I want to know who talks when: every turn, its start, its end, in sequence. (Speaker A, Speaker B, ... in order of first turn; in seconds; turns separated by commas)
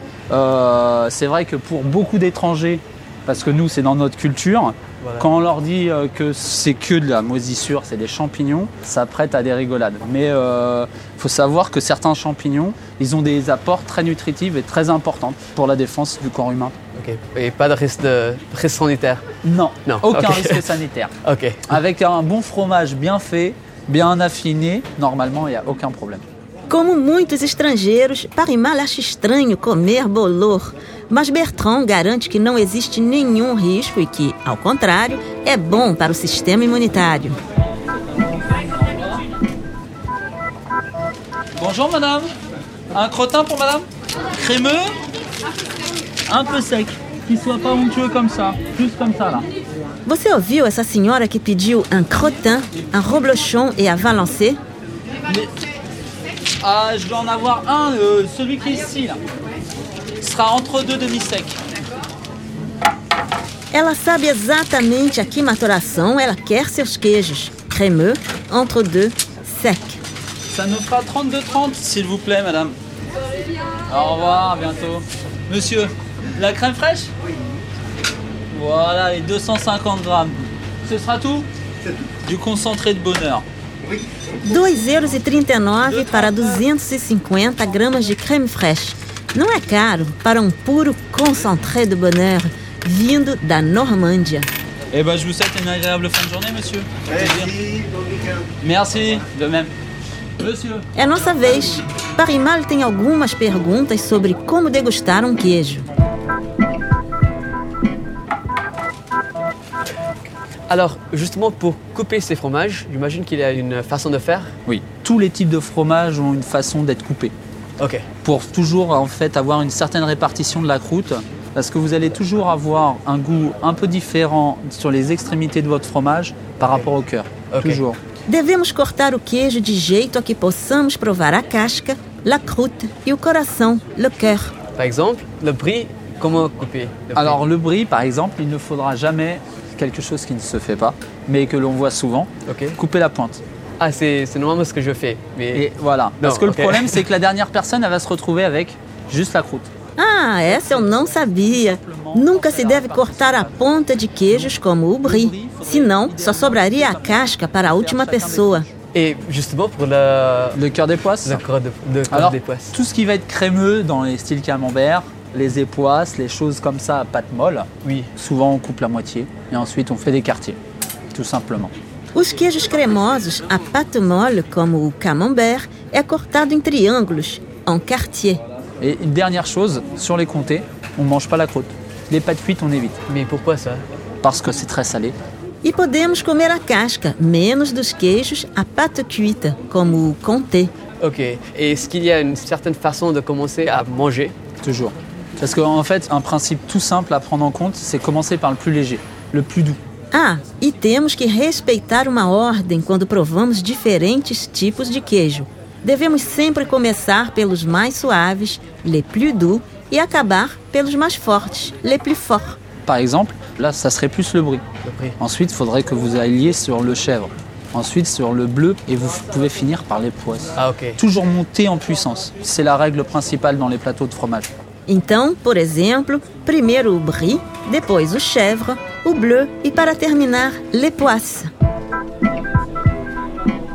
Speaker A: 0.3-16.7, Speaker B: 5.0-5.2, Speaker B: 16.9-19.2, Speaker A: 19.4-21.1, Speaker B: 19.9-21.8, Speaker A: 21.7-26.2, Speaker C: 26.7-37.4, Speaker A: 38.8-39.2, Speaker A: 41.6-42.3, Speaker A: 42.9-44.9, Speaker A: 46.3-49.5, Speaker C: 50.0-54.6, Speaker A: 55.3-55.5, Speaker A: 56.6-59.2, Speaker A: 60.2-61.6, Speaker C: 63.7-70.0, Speaker A: 70.5-72.8, Speaker A: 73.9-77.1, Speaker A: 78.5-81.5, Speaker A: 82.2-83.4, Speaker C: 84.4-94.5, Speaker A: 85.8-86.6, Speaker A: 94.9-97.8, Speaker A: 98.6-99.7, Speaker A: 100.4-100.9, Speaker C: 100.9-105.9, Speaker B: 110.7-114.5, Speaker A: 114.7-117.3, Speaker B: 117.8-118.0, Speaker A: 118.2-128.0, Speaker B: 127.5-127.8, Speaker C: 128.3-134.5, Speaker B: 134.8-137.4, Speaker A: 137.1-143.4, Speaker B: 142.5-142.8, Speaker B: 143.8-145.6, Speaker A: 145.5-149.7, Speaker B: 146.2-147.0, Speaker C: 150.0-158.7, Speaker A: 150.6-158.7, Speaker B: 158.9-160.6, Speaker A: 160.5-161.4, Speaker B: 161.2-162.8, Speaker A: 162.1-170.6, Speaker B: 167.8-168.1, Speaker A: 171.1-171.7, Speaker C: 172.1-178.4, Speaker A: 178.8-183.0, Speaker B: 183.1-183.8, Speaker A: 184.2-185.2, Speaker C: 185.6-190.7, Speaker B: 191.0-194.3, Speaker A: 194.6-199.8, Speaker C: 200.1-212.6, Speaker A: 212.8-214.6, Speaker B: 214.8-215.2, Speaker A: 215.2-224.5, Speaker B: 220.6-221.0, Speaker C: 224.9-231.5